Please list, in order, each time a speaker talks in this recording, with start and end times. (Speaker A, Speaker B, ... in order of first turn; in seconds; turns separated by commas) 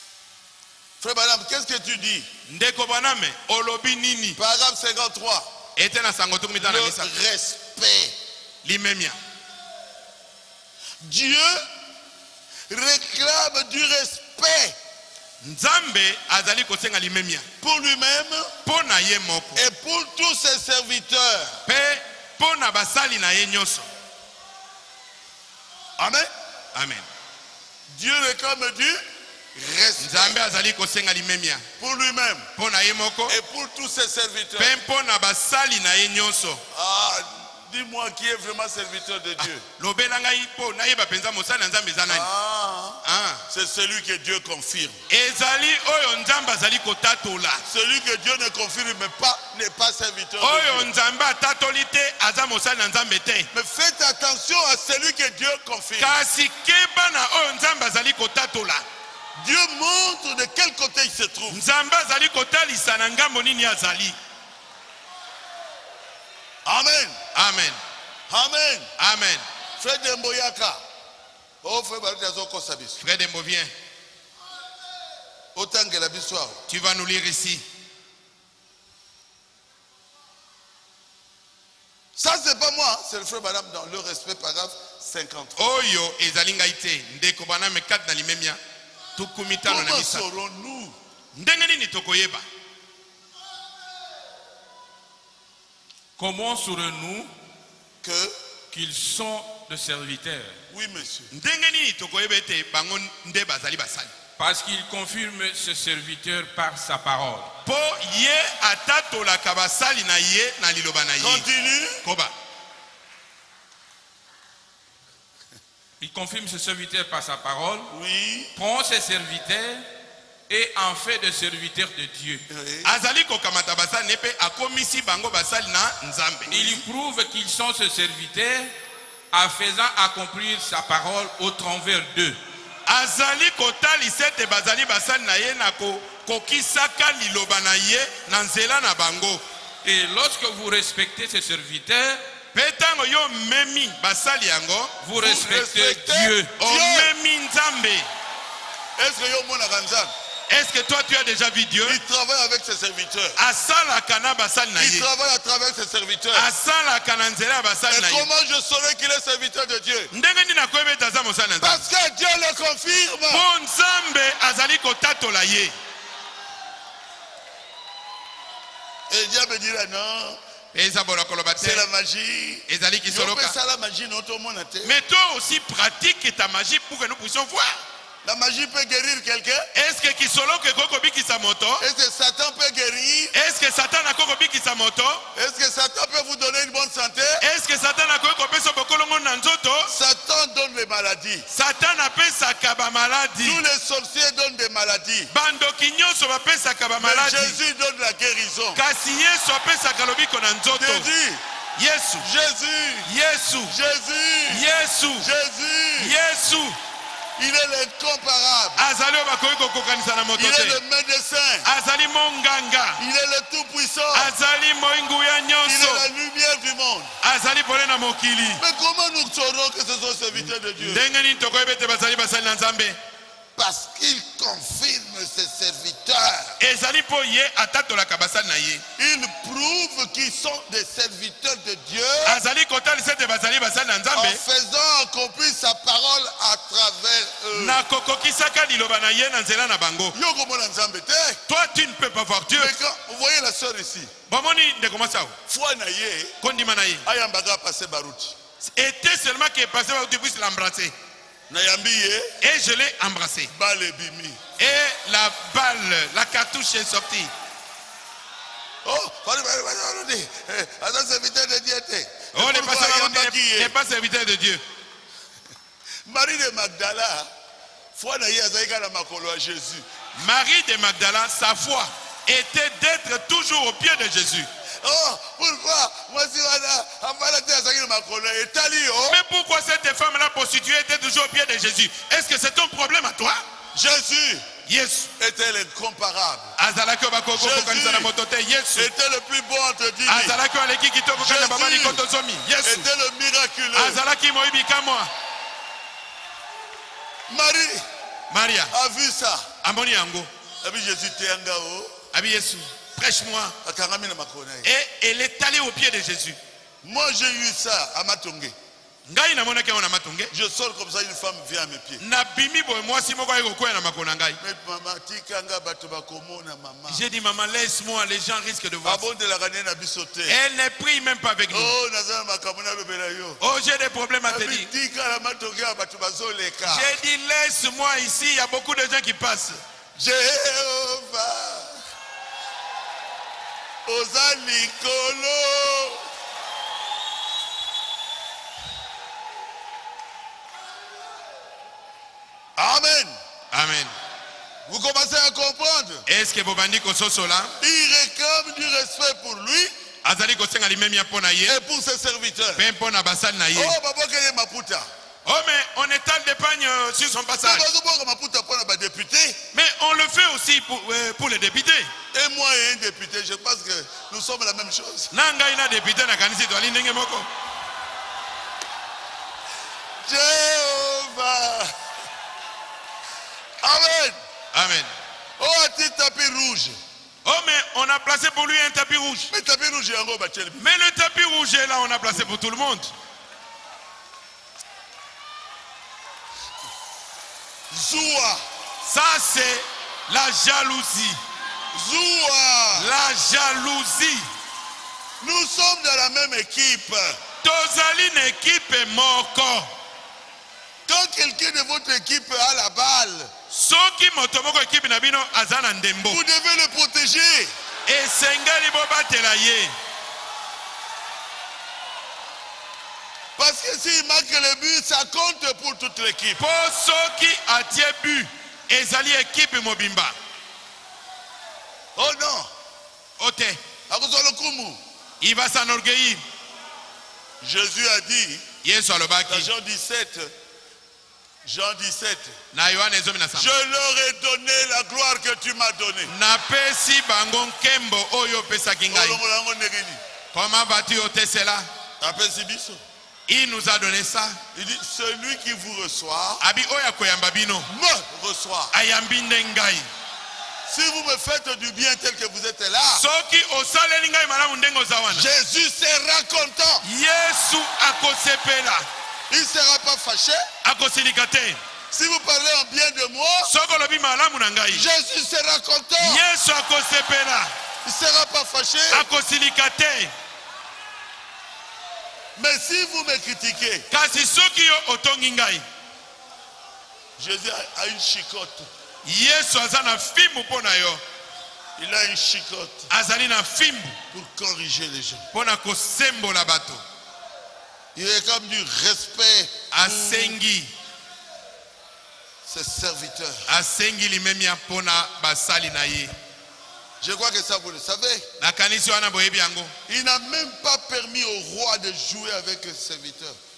Speaker A: 1.0-2.3, Speaker B: 2.5-4.4, Speaker A: 4.4-5.5, Speaker B: 5.8-7.1, Speaker A: 6.6-8.2, Speaker B: 8.6-9.2, Speaker A: 11.0-11.7, Speaker A: 12.7-14.8, Speaker B: 15.4-17.5, Speaker A: 17.6-18.5, Speaker B: 18.6-19.6, Speaker A: 19.6-21.6, Speaker B: 21.7-23.9, Speaker A: 26.0-26.3, Speaker B: 26.7-27.1, Speaker A: 27.9-29.0, Speaker A: 29.6-30.4, Speaker B: 30.0-31.7, Speaker A: 31.8-32.5, Speaker B: 32.6-33.4, Speaker A: 33.3-34.8, Speaker B: 34.6-36.6, Speaker A: 36.7-39.7, Speaker B: 39.4-42.3, Speaker A: 42.1-45.0, Speaker B: 43.0-43.4, Speaker B: 45.1-47.6, Speaker A: 47.7-50.9, Speaker B: 50.4-53.5, Speaker A: 53.5-56.2, Speaker B: 56.0-58.9, Speaker A: 59.4-61.6, Speaker B: 61.5-64.2, Speaker A: 66.7-67.2, Speaker B: 67.3-67.8, Speaker A: 68.3-68.9, Speaker B: 69.0-69.5, Speaker A: 69.8-70.8, Speaker A: 71.6-73.0, Speaker B: 73.0-73.7, Speaker A: 75.5-76.6, Speaker B: 76.7-77.7, Speaker A: 82.2-85.6, Speaker B: 85.6-88.6, Speaker B: 89.2-90.2, Speaker A: 89.7-91.0, Speaker B: 91.3-92.4, Speaker C: 96.2-97.3, Speaker A: 98.0-98.4, Speaker C: 98.7-100.6, Speaker A: 100.7-101.3, Speaker B: 101.3-104.1, Speaker C: 104.4-107.5, Speaker B: 107.7-111.5, Speaker A: 111.2-112.0, Speaker B: 112.0-112.3, Speaker C: 116.0-117.9, Speaker A: 117.9-118.5, Speaker C: 118.5-119.8, Speaker C: 120.5-122.4, Speaker A: 122.5-122.9, Speaker B: 122.8-126.8, Speaker C: 126.5-128.7, Speaker C: 129.3-132.4, Speaker B: 132.9-139.4, Speaker C: 139.8-142.2, Speaker B: 142.5-145.0, Speaker C: 145.0-146.5, Speaker A: 145.2-147.1, Speaker B: 146.6-148.1, Speaker A: 149.0-150.1, Speaker B: 150.5-152.0, Speaker A: 151.8-153.4, Speaker B: 153.4-155.1, Speaker A: 154.8-156.5, Speaker B: 156.3-158.3, Speaker A: 157.9-160.1, Speaker B: 160.1-161.9, Speaker A: 161.6-163.5, Speaker B: 163.3-165.8, Speaker A: 169.1-170.4, Speaker B: 170.7-171.9, Speaker A: 171.6-174.9, Speaker B: 172.7-173.6, Speaker B: 174.8-177.8, Speaker A: 178.2-179.7, Speaker B: 179.7-181.8, Speaker A: 181.8-183.3, Speaker B: 183.3-185.3, Speaker A: 185.3-187.4, Speaker B: 187.4-189.9, Speaker A: 189.9-191.5, Speaker B: 191.5-193.6, Speaker A: 193.4-195.3, Speaker B: 195.3-197.6, Speaker A: 197.0-198.8, Speaker B: 198.8-201.1, Speaker A: 200.7-201.4, Speaker B: 201.8-202.3, Speaker A: 202.2-203.1, Speaker B: 203.1-203.8, Speaker A: 203.7-204.7, Speaker B: 204.5-205.3, Speaker A: 205.2-206.2, Speaker B: 206.0-206.8, Speaker A: 207.4-208.8, Speaker B: 208.8-210.8, Speaker A: 210.4-211.7, Speaker B: 211.7-213.0, Speaker A: 213.0-214.3, Speaker B: 214.1-216.1, Speaker A: 215.7-217.1, Speaker B: 217.2-218.6, Speaker A: 218.6-221.1, Speaker B: 220.8-223.0, Speaker A: 223.6-226.6, Speaker B: 226.6-228.8, Speaker A: 229.0-232.4, Speaker B: 232.2-234.4, Speaker A: 234.2-237.8, Speaker B: 237.5-240.2, Speaker A: 240.1-241.4, Speaker B: 241.5-242.8, Speaker A: 242.5-244.1, Speaker B: 244.3-245.4, Speaker A: 245.5-246.3, Speaker B: 246.4-247.1, Speaker A: 247.1-248.4, Speaker B: 248.6-250.9, Speaker A: 251.5-252.3, Speaker B: 252.4-253.5, Speaker A: 253.5-254.4, Speaker B: 254.6-257.3, Speaker A: 258.8-263.7, Speaker B: 262.3-264.6, Speaker A: 266.1-267.3, Speaker A: 267.9-269.9, Speaker B: 270.1-274.5, Speaker A: 274.8-279.2, Speaker B: 279.1-283.4, Speaker A: 283.8-284.5, Speaker B: 284.7-285.1, Speaker A: 285.2-286.6, Speaker B: 286.6-288.9, Speaker A: 287.4-288.1, Speaker A: 288.8-290.4, Speaker B: 290.1-292.9, Speaker A: 291.2-292.0, Speaker A: 292.6-294.0, Speaker B: 293.7-295.1, Speaker A: 297.3-297.9, Speaker B: 298.3-298.7, Speaker A: 298.7-299.5, Speaker B: 299.6-300.3, Speaker A: 300.6-302.0, Speaker B: 302.1-303.6, Speaker A: 303.6-304.7, Speaker B: 304.6-306.4, Speaker A: 306.8-308.6, Speaker B: 309.1-310.3, Speaker A: 310.3-312.0, Speaker B: 312.0-314.4, Speaker A: 314.4-317.0, Speaker B: 316.9-319.0, Speaker A: 318.8-320.4, Speaker B: 320.3-321.7, Speaker A: 321.5-323.4, Speaker B: 323.4-324.7, Speaker A: 324.3-326.9, Speaker B: 326.6-329.6, Speaker A: 330.0-331.8, Speaker A: 333.9-336.1, Speaker A: 342.6-343.2, Speaker B: 343.5-343.9, Speaker A: 344.7-346.1, Speaker B: 346.1-347.6, Speaker A: 347.6-349.7, Speaker B: 350.0-351.6, Speaker A: 351.5-352.6, Speaker B: 352.6-353.8, Speaker A: 353.5-354.9, Speaker B: 355.2-357.7, Speaker A: 357.4-359.4, Speaker B: 359.5-361.9, Speaker A: 362.1-365.1, Speaker B: 365.1-367.3, Speaker A: 370.1-371.7, Speaker A: 373.6-374.2, Speaker B: 374.5-374.9, Speaker A: 375.4-376.8, Speaker B: 377.2-379.3, Speaker A: 379.3-380.6, Speaker B: 380.6-382.9, Speaker A: 387.7-388.4, Speaker B: 388.8-391.2, Speaker A: 391.7-392.9, Speaker B: 392.8-394.3, Speaker A: 395.2-397.2, Speaker B: 397.4-399.7, Speaker A: 400.9-403.3, Speaker B: 403.5-406.2, Speaker A: 406.1-407.5, Speaker B: 407.9-409.8, Speaker A: 413.4-416.4, Speaker B: 416.4-420.2, Speaker A: 422.0-422.5, Speaker B: 423.2-423.6, Speaker A: 423.9-424.8, Speaker B: 425.2-426.2, Speaker A: 427.4-428.5, Speaker B: 428.6-429.5, Speaker A: 429.3-430.3, Speaker A: 431.4-432.4, Speaker B: 432.5-433.6, Speaker A: 433.4-436.1, Speaker B: 436.1-439.2, Speaker A: 438.9-440.0, Speaker B: 440.3-441.7, Speaker A: 442.0-442.8, Speaker B: 443.3-444.4, Speaker A: 444.5-446.4, Speaker B: 446.4-447.7, Speaker A: 447.7-448.7, Speaker B: 448.7-449.9, Speaker A: 450.7-453.1, Speaker B: 452.9-455.3, Speaker A: 455.1-456.8, Speaker B: 456.8-458.9, Speaker A: 459.3-460.4, Speaker B: 460.6-461.6, Speaker A: 461.9-463.5, Speaker B: 463.4-464.8, Speaker A: 464.7-466.2, Speaker B: 466.0-467.5, Speaker A: 467.9-469.1, Speaker B: 468.9-470.1, Speaker A: 472.4-473.9, Speaker B: 473.9-475.6, Speaker A: 477.2-478.7, Speaker B: 479.0-481.0, Speaker A: 481.8-482.9, Speaker B: 482.9-484.0, Speaker A: 484.1-485.3, Speaker B: 485.3-486.8, Speaker A: 487.9-490.4, Speaker B: 489.7-490.7, Speaker A: 492.4-493.5, Speaker B: 493.5-496.1, Speaker A: 497.0-498.3, Speaker B: 498.4-499.7, Speaker A: 499.9-503.4